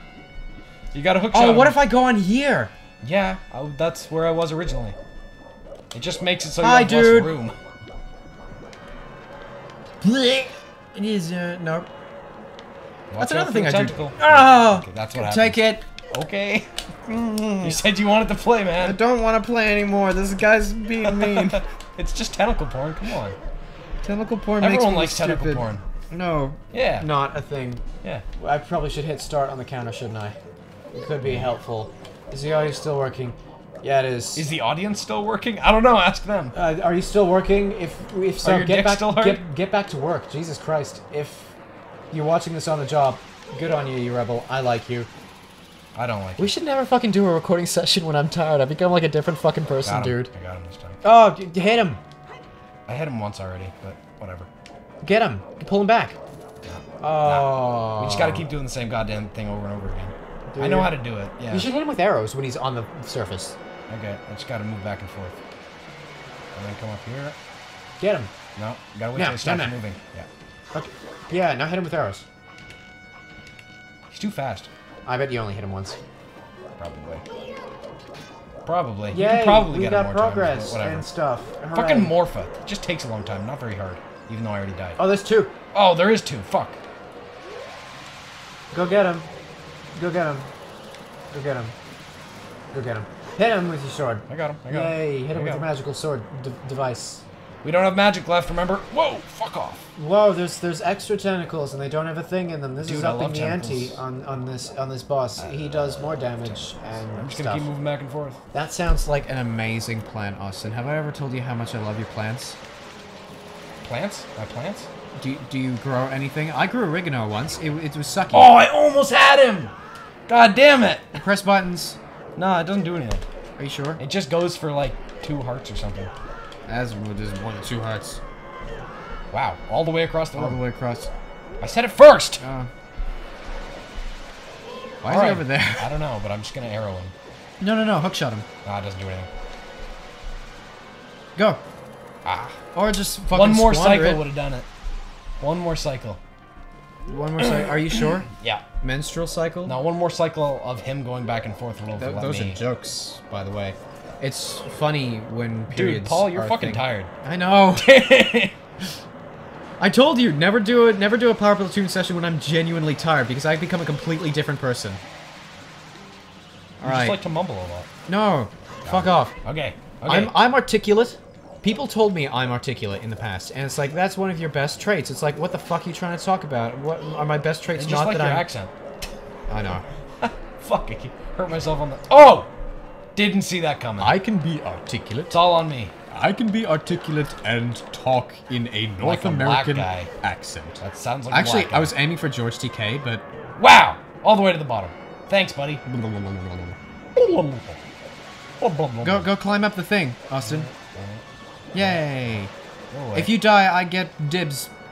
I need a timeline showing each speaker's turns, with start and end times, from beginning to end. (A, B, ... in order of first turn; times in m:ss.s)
0:00.9-0:01.8 A
0:01.3-0:02.7 B
0:03.0-0:05.0 A
0:05.9-0:07.6 A
0:06.6-0:07.3 B
0:10.0-0:11.9 B
0:13.1-0:15.6 A
0:13.2-0:15.8 B
0:16.1-0:16.7 A
0:17.1-0:17.8 B
0:17.6-0:19.0 A
0:18.8-0:21.6 B
0:21.0-0:23.4 A
0:24.0-0:27.8 B
0:24.6-0:25.8 A
0:26.7-0:27.1 A
0:28.4-0:30.4 B
0:30.9-0:34.5 B
0:34.4-0:36.5 A
0:36.5-0:41.6 B
0:38.4-0:39.4 A
0:42.1-0:45.1 B
0:46.0-0:46.5 A
0:46.4-0:50.3 B
0:49.8-0:51.0 A
0:51.0-0:52.0 B
0:52.9-0:54.5 A
0:55.0-0:56.2 B
0:56.6-1:01.7 A
0:57.0-0:58.5 B
1:00.5-1:00.9 B
1:01.5-1:03.6 B
1:03.9-1:05.4 A
1:06.6-1:07.4 A
1:08.0-1:08.3 B
1:08.6-1:10.3 A
1:09.2-1:09.8 B
1:10.7-1:12.3 B
1:14.1-1:14.7 A
1:15.1-1:16.0 B
1:16.8-1:17.2 A
1:18.7-1:21.1 A
1:19.1-1:22.2 B
1:21.7-1:25.0 A
1:25.0-1:25.6 B
1:25.7-1:26.8 A
1:28.7-1:29.3 B
1:30.0-1:30.5 B
1:31.3-1:31.8 B
1:32.7-1:37.2 B
1:34.3-1:35.7 A
1:37.6-1:39.9 A
1:40.0-1:47.7 B
1:42.8-1:44.0 A
1:45.4-1:46.6 A
1:47.2-1:48.4 A
1:48.5-1:52.6 B
1:53.8-1:54.9 A
1:55.2-1:58.6 B
1:58.3-1:59.7 A
2:00.3-2:01.2 A
2:01.2-2:02.0 B
2:02.4-2:03.2 A
2:03.6-2:04.0 B
2:04.0-2:06.1 A
2:06.7-2:08.2 B
2:09.3-2:10.6 A
2:10.4-2:11.1 B
2:11.6-2:12.4 A
2:12.4-2:12.7 B
2:15.0-2:15.9 B
2:15.1-2:17.1 A
2:17.6-2:18.5 B
2:18.6-2:19.3 A
2:21.4-2:21.6 B
2:22.2-2:22.6 A
2:22.7-2:24.3 B
2:23.3-2:24.7 A
2:25.4-2:26.2 A
2:27.1-2:29.8 B
2:27.4-2:28.7 A
2:29.6-2:32.6 A
2:32.0-2:37.9 B
2:35.7-2:37.1 A
2:37.8-2:38.6 A
2:39.8-2:45.0 B
2:46.8-2:47.2 B
2:46.8-2:47.9 A
2:48.1-2:49.4 B
2:48.9-2:50.4 A
2:50.0-2:58.5 B
2:57.8-2:58.7 A
2:59.5-2:59.9 B
3:00.2-3:02.5 A
3:03.2-3:04.2 A
3:04.0-3:05.4 B
3:05.3-3:06.0 A
3:06.1-3:13.2 B
3:09.0-3:10.1 A
3:10.8-3:12.0 A
3:13.6-3:15.8 A
3:15.8-3:16.8 B
3:17.2-3:17.8 A
3:18.6-3:19.3 A
3:19.0-3:20.7 B
3:20.4-3:21.2 A
3:21.7-3:22.5 B
3:21.8-3:22.2 A
3:22.9-3:23.4 A
3:23.2-3:24.7 B